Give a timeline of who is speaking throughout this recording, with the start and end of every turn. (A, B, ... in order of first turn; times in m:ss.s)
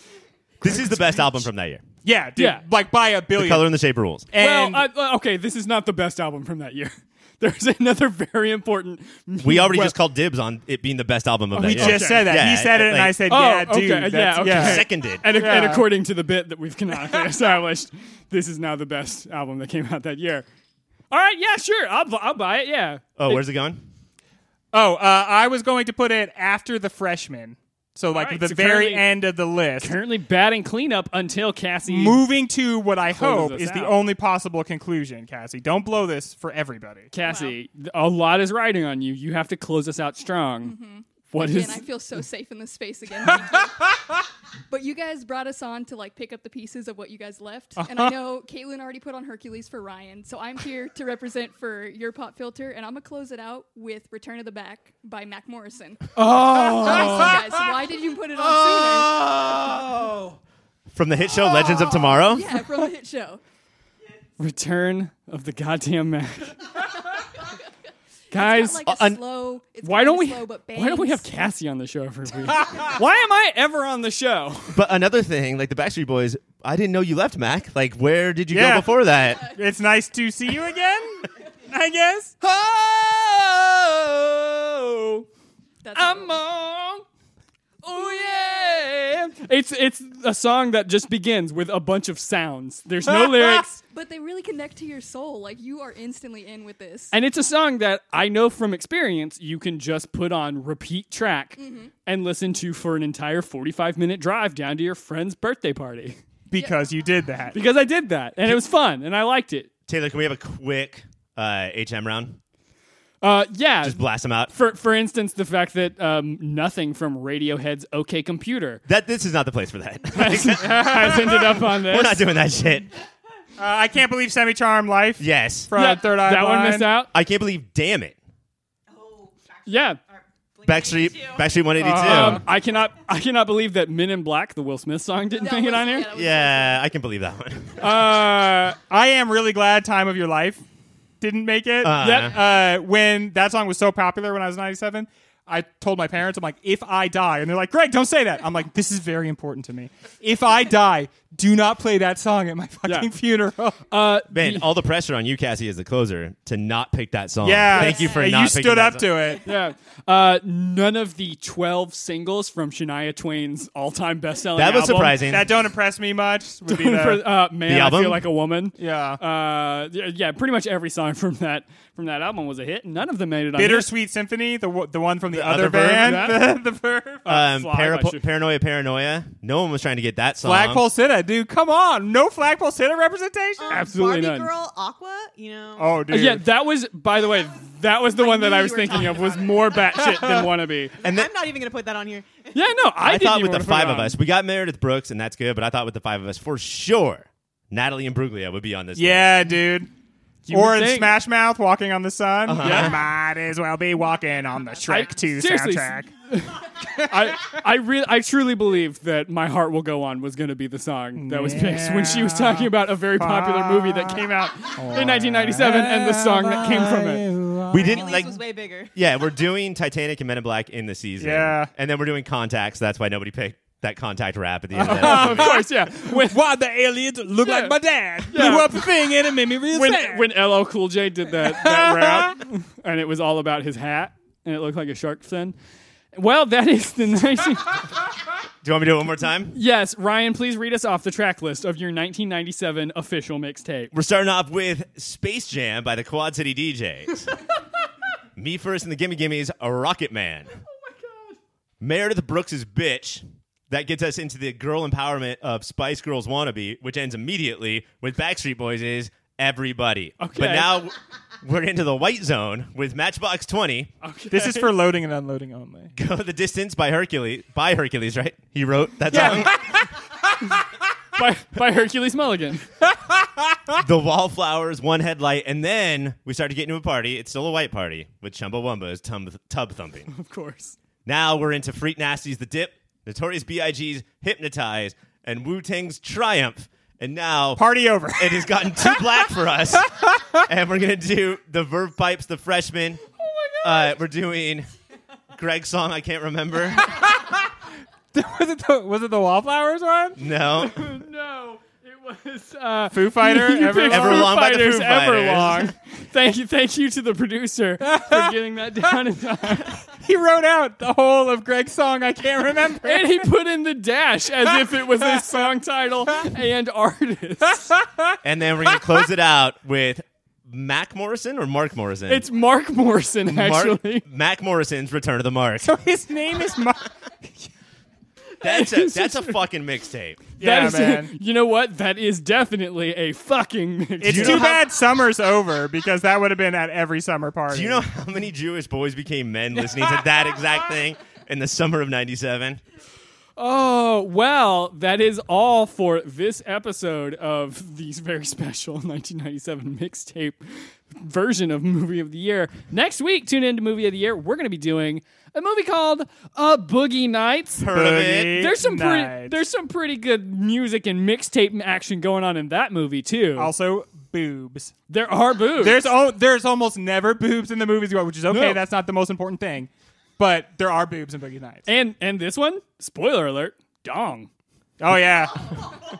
0:00.6-0:01.8 A
0:02.0-0:03.7 B
0:02.4-0:02.6 C
0:03.3-0:04.3 A
0:04.3-0:04.8 B
0:04.4-0:09.9 C
0:09.4-0:13.2 A
0:11.5-0:12.4 C
0:11.6-0:15.8 B
0:13.3-0:20.4 C
0:14.4-0:15.3 A
0:17.0-0:17.3 B
0:21.1-0:23.4 C
0:23.2-0:23.8 A
0:24.7-0:30.0 B
0:28.1-0:29.1 C
0:29.8-0:32.2 C
0:31.9-0:37.1 B
0:33.1-0:34.0 C
0:37.1-0:40.7 C
0:37.2-0:37.6 D
0:40.6-0:43.9 D
0:41.3-0:41.8 C
0:44.7-0:59.2 D
0:47.8-0:48.1 B
0:56.1-0:57.4 C
0:58.9-1:00.2 A
1:00.9-1:02.5 A
1:01.5-1:03.4 D
1:04.4-1:06.9 C
1:07.2-1:07.5 D
1:08.3-1:08.8 C
1:08.3-1:11.3 D
1:08.8-1:09.2 A
1:09.8-1:14.8 C
1:14.7-1:19.4 A
1:18.5-1:22.3 B
1:19.2-1:19.5 D
1:22.4-1:25.3 C
1:25.8-1:26.4 D
1:25.9-1:27.0 C
1:27.8-1:33.8 C
1:28.3-1:28.9 D
1:33.8-1:37.2 D
1:37.1-1:46.2 C
1:41.6-1:41.9 D
1:46.5-1:47.6 B
1:47.5-1:49.7 C
1:49.9-1:52.4 A
1:53.2-1:58.8 C
1:53.8-1:54.5 A
1:58.9-2:02.9 A
2:00.1-2:02.3 C
2:00.4-2:01.6 B
2:03.6-2:06.9 B
2:05.2-2:05.7 A
2:05.7-2:07.1 C
2:07.1-2:08.2 A
2:08.9-2:11.6 E
2:09.6-2:10.0 C
2:10.6-2:12.4 A
2:11.8-2:16.1 C
2:11.9-2:12.4 B
2:15.3-2:16.8 D
2:16.1-2:18.0 A
2:17.8-2:18.8 C
2:18.8-2:20.6 B
2:21.2-2:33.8 B
2:21.8-2:22.4 A
2:22.0-2:22.3 C
2:32.8-2:33.1 C
2:33.9-2:34.7 C
2:34.3-2:39.1 A
2:37.4-2:39.5 B
2:39.4-2:45.3 C
2:44.5-2:45.5 A
2:45.2-2:47.2 B
2:46.6-2:53.9 C
2:47.6-2:48.2 A
2:48.8-2:49.2 B
2:53.6-2:57.2 B
2:55.3-2:56.3 A
2:56.0-2:56.5 C
2:57.2-2:58.2 C
2:57.2-3:00.8 A
3:00.4-3:03.7 B
3:03.6-3:06.1 E
3:03.7-3:04.5 C
3:05.8-3:06.4 B
3:06.1-3:11.0 C
3:08.2-3:09.5 D
3:08.8-3:09.8 E
3:10.2-3:10.4 B
3:11.0-3:12.5 E
3:11.0-3:11.3 A
3:12.5-3:14.2 C
3:13.0-3:19.4 A
3:19.0-3:19.9 B
3:20.5-3:21.2 C
3:20.5-3:26.1 B
3:22.4-3:23.0 A
3:22.6-3:23.0 C
3:24.8-3:37.3 C
3:26.8-3:27.6 B
3:31.2-3:38.2 B
3:37.7-3:38.4 A
3:37.8-3:39.0 E
3:38.9-3:45.6 A
3:41.2-3:41.7 B
3:44.7-3:46.4 C
3:44.8-3:50.3 B
3:47.4-3:48.9 C
3:49.7-3:55.6 C
3:51.4-3:52.4 B
3:56.1-3:57.8 C
3:58.6-3:59.5 A
3:59.5-4:03.9 C
4:03.9-4:07.3 A
4:08.4-4:10.6 A
4:10.7-4:11.4 C
4:11.8-4:23.9 A
4:20.2-4:20.8 C
4:24.0-4:24.7 C
4:24.3-4:25.9 B
4:26.0-4:29.7 A
4:29.1-4:30.0 B
4:29.1-4:29.5 C
4:31.1-4:32.7 C
4:32.9-4:33.7 B
4:33.8-4:40.1 A
4:40.1-4:40.8 C
4:41.0-4:47.6 A
4:47.6-4:49.1 B
4:48.1-4:53.0 A
4:49.8-4:50.4 B
4:53.2-4:54.0 C
4:53.6-4:54.7 A
4:55.3-4:56.9 A
4:56.8-4:57.5 B
4:58.1-5:00.2 B
5:00.2-5:00.9 A
5:00.5-5:09.8 C
5:02.9-5:04.3 B
5:03.8-5:05.7 A
5:07.8-5:08.3 B
5:09.5-5:13.2 B
5:12.8-5:17.8 C
5:14.6-5:15.3 B
5:17.6-5:18.2 B
5:18.2-5:22.2 A
5:22.1-5:24.0 C
5:23.3-5:25.7 A
5:25.6-5:27.5 B
5:28.4-5:29.4 C
5:28.4-5:30.3 A
5:30.4-5:31.1 B
5:30.4-5:34.5 C
5:34.0-5:37.8 B
5:34.0-5:34.6 A
5:37.5-5:42.6 A
5:43.4-5:57.7 C
5:57.6-5:58.4 A
5:57.7-5:59.4 B
5:58.3-6:03.5 C
6:03.4-6:04.7 B
6:04.9-6:05.9 C
6:05.5-6:11.6 B
6:08.3-6:08.6 C
6:11.7-6:14.3 C
6:14.8-6:15.7 B